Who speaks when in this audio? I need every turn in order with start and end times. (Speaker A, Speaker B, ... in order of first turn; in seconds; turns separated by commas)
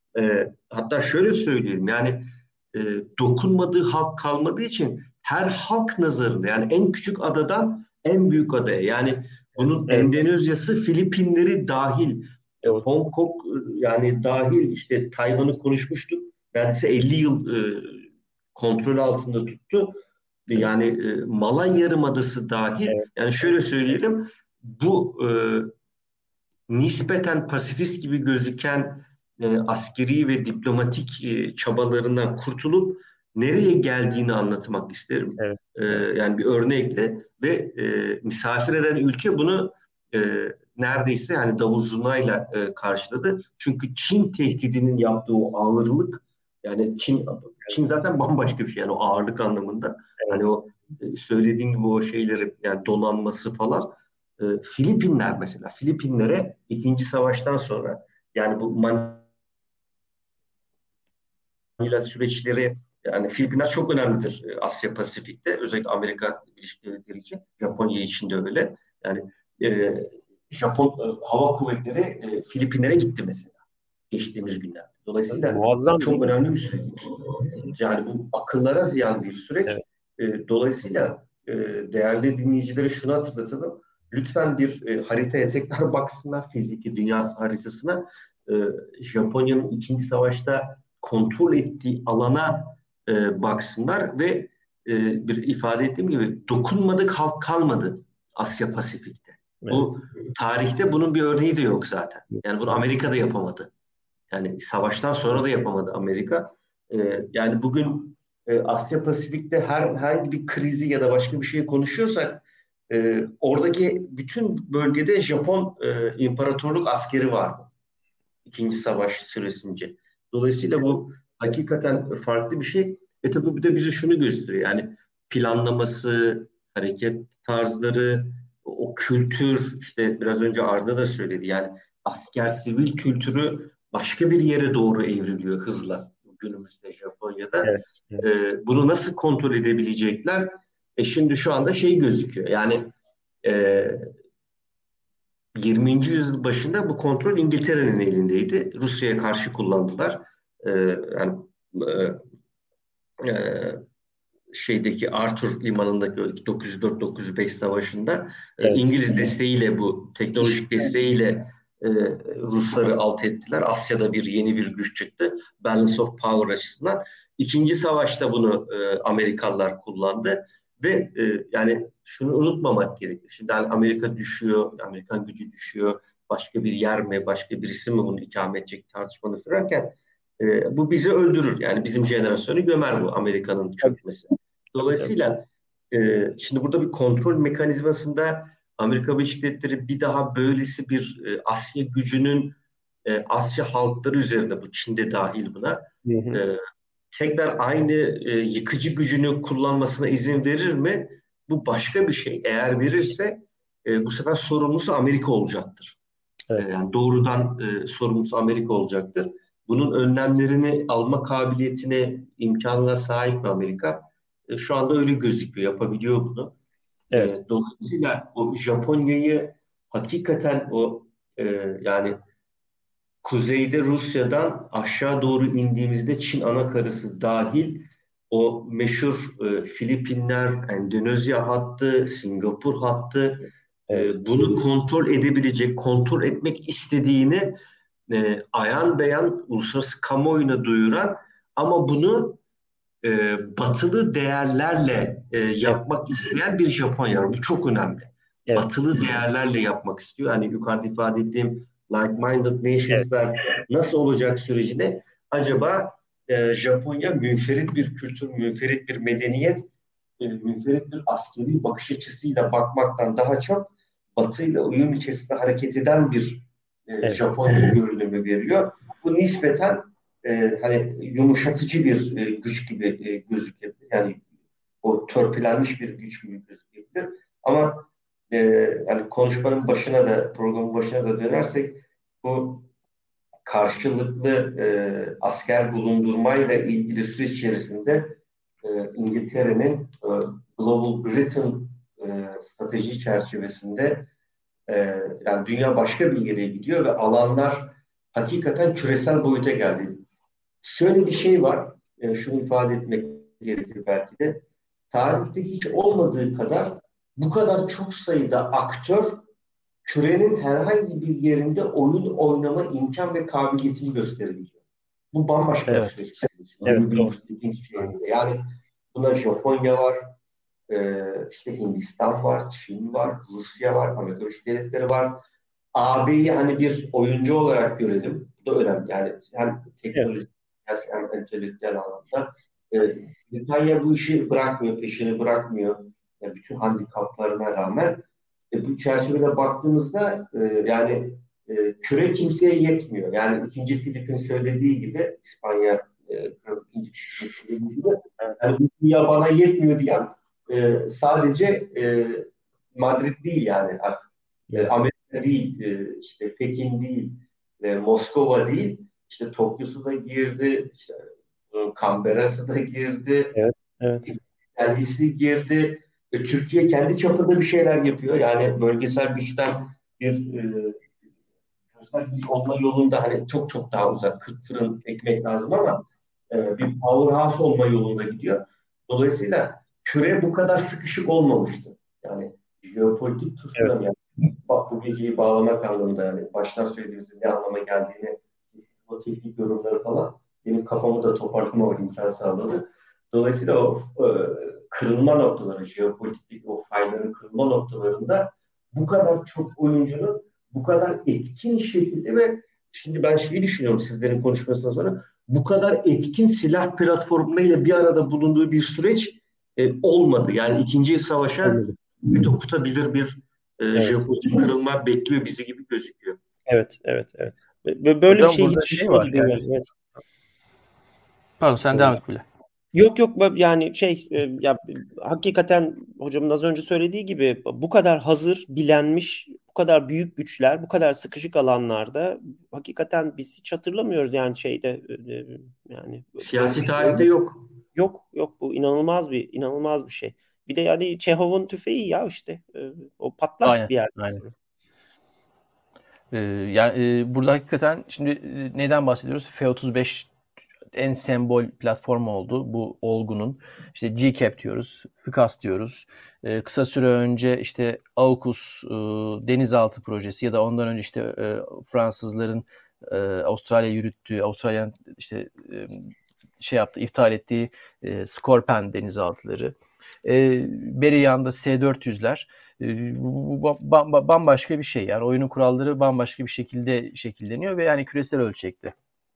Speaker A: 0.2-2.2, Speaker A: 2.7-18.0, Speaker B: 9.6-10.2, Speaker A: 18.6-19.9, Speaker A: 20.5-25.7, Speaker A: 26.7-59.3, Speaker B: 50.2-50.5, Speaker A: 61.8-73.5, Speaker A: 74.1-103.7, Speaker B: 75.3-76.4, Speaker B: 99.6-99.9, Speaker A: 104.3-117.7, Speaker A: 118.5-142.9, Speaker B: 137.6-138.3, Speaker A: 143.4-144.1, Speaker A: 145.6-152.2, Speaker A: 153.2-153.8, Speaker A: 154.5-196.6, Speaker B: 158.6-159.2, Speaker B: 184.8-185.1, Speaker B: 196.1-196.4, Speaker A: 197.1-206.0, Speaker A: 206.6-216.5, Speaker A: 217.2-222.2, Speaker A: 223.2-237.5, Speaker B: 233.9-234.6, Speaker A: 238.1-242.4, Speaker A: 243.0-259.6, Speaker B: 248.5-249.1, Speaker A: 260.2-274.2, Speaker A: 274.8-282.7, Speaker A: 283.5-294.1, Speaker A: 294.7-300.0, Speaker A: 300.6-309.2, Speaker A: 309.9-314.6, Speaker A: 315.1-318.4, Speaker B: 316.6-317.1, Speaker A: 318.9-320.1, Speaker A: 320.7-325.2, Speaker A: 325.8-363.3, Speaker B: 354.5-354.8, Speaker B: 363.4-364.1, Speaker A: 364.1-370.8, Speaker A: 371.8-416.2, Speaker B: 411.4-411.8, Speaker B: 413.8-414.1, Speaker B: 416.5-419.6, Speaker C: 418.1-419.4, Speaker C: 421.4-422.2, Speaker B: 421.7-422.0, Speaker B: 422.7-437.1, Speaker A: 436.2-437.5, Speaker B: 437.8-444.4, Speaker C: 443.4-444.2, Speaker C: 446.1-450.1, Speaker C: 450.7-478.8